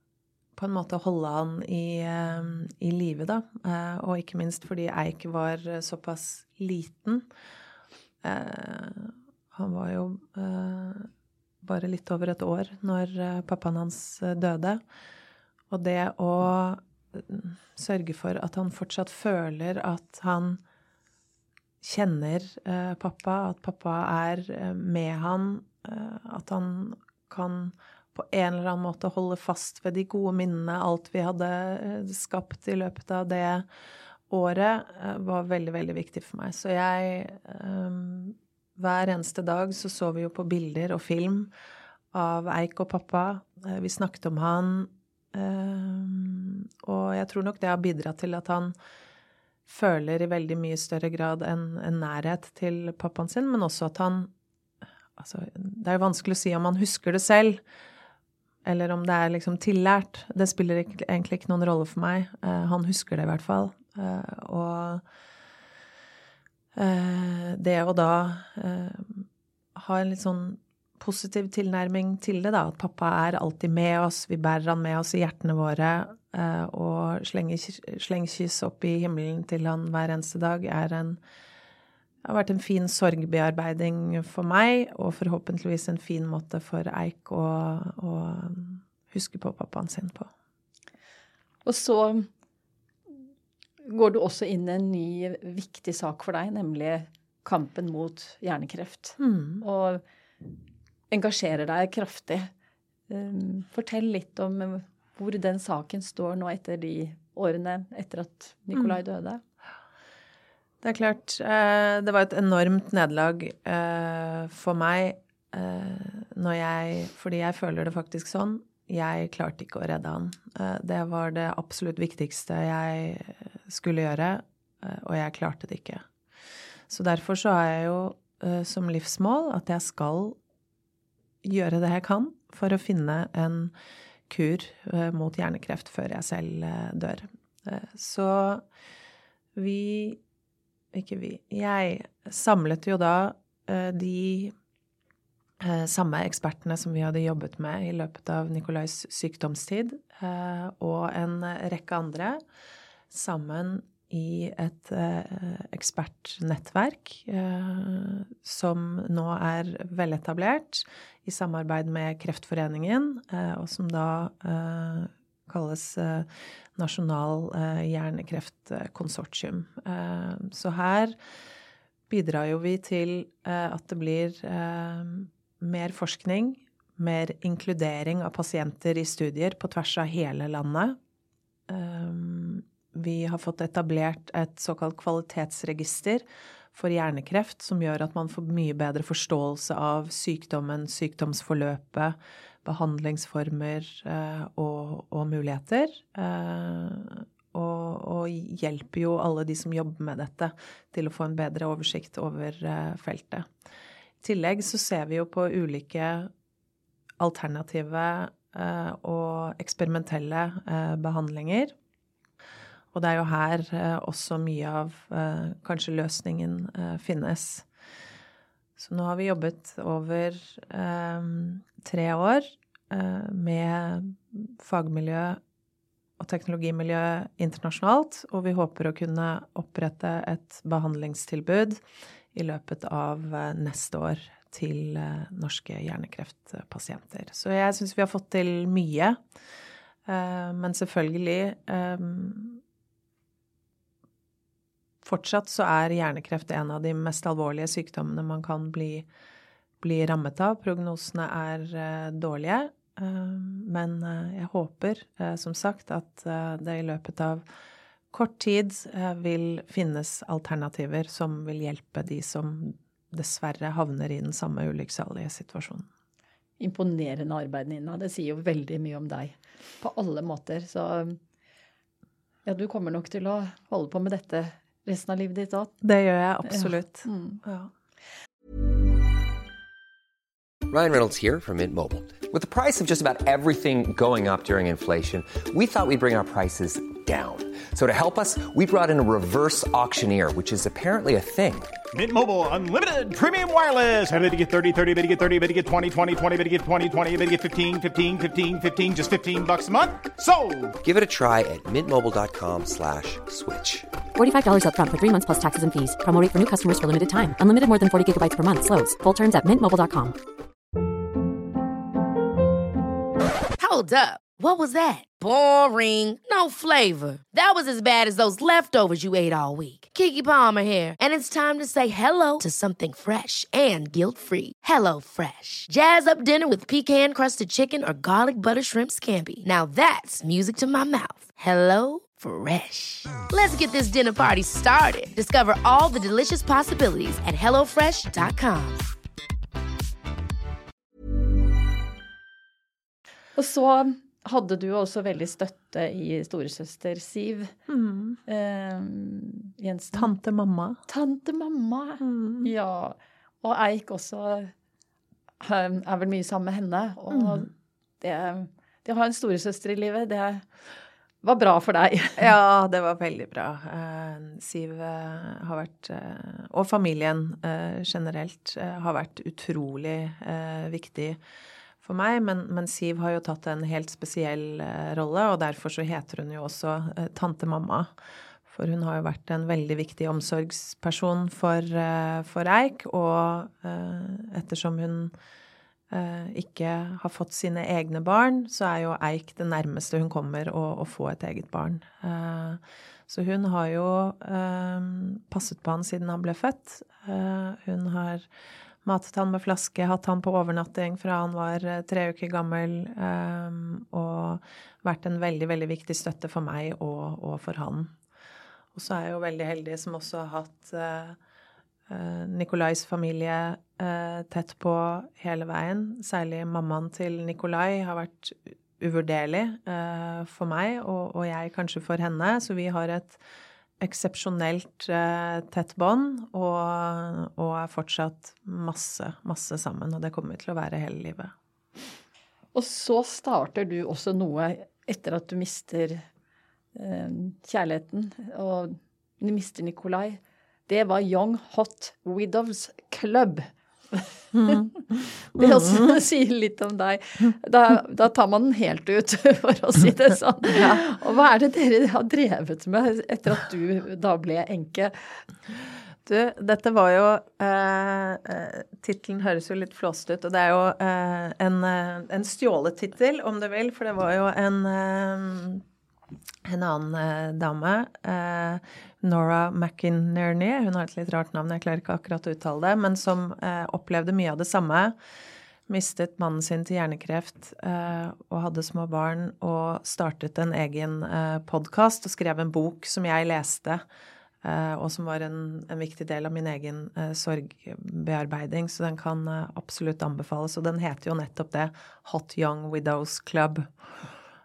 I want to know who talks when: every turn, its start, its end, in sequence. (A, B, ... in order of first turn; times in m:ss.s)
0:00.6-0:07.3 A
0:08.2-0:11.1 A
0:11.6-0:14.8 A
0:15.7-0:20.6 A
0:21.8-0:33.7 A
0:34.3-0:41.5 A
0:42.1-0:48.7 A
0:49.7-0:54.3 A
0:55.2-0:57.6 A
0:58.6-1:05.0 A
1:06.7-1:21.2 A
1:22.2-1:30.3 A
1:31.6-1:32.3 B
1:33.8-1:40.0 B
1:39.2-1:39.6 A
1:41.1-1:42.5 B
1:43.1-1:49.4 B
1:50.8-2:06.1 A
2:06.9-2:10.4 A
2:11.4-2:13.7 A
2:14.3-2:18.6 A
2:19.5-2:20.2 A
2:20.9-2:24.5 A
2:25.6-2:32.4 A
2:33.1-2:51.2 A
2:52.1-3:01.0 A
3:01.7-3:23.5 A
3:24.2-3:26.3 A
3:27.2-3:31.7 A
3:32.9-3:37.7 A
3:38.8-3:45.4 A
3:46.2-3:51.8 A
3:52.3-3:59.2 A
4:00.0-4:02.6 A
4:05.0-4:09.1 A
4:09.8-4:17.4 A
4:18.1-4:25.9 A
4:26.6-4:31.2 B
4:32.4-4:35.7 B
4:35.8-4:37.7 A
4:36.4-4:37.4 B
4:40.7-4:51.7 C
4:51.9-5:00.7 D
5:00.8-5:03.9 C
5:04.2-5:10.2 E
5:13.6-5:38.8 F
5:43.4-5:47.5 B
5:47.7-5:48.2 A
5:48.3-5:50.1 B
5:49.9-5:50.8 A
5:50.9-5:54.5 B
5:52.0-5:52.5 A
5:55.4-5:57.5 B
5:57.1-5:57.5 A
5:58.0-6:00.4 B
6:01.2-6:02.3 B
6:02.2-6:11.2 A
6:11.8-6:17.9 A
6:18.5-6:25.1 A
6:25.9-6:38.3 A
6:38.8-6:47.9 A
6:48.7-6:51.2 A
6:51.9-7:03.2 A
7:03.8-7:11.3 A
7:12.5-7:16.0 B
7:16.7-7:24.6 B
7:24.3-7:24.7 A
7:25.3-7:35.2 B
7:25.4-7:26.0 A
7:30.5-7:30.8 A
7:36.0-7:45.6 A
7:46.4-7:55.0 A
7:55.7-8:03.8 A
8:04.4-8:14.1 A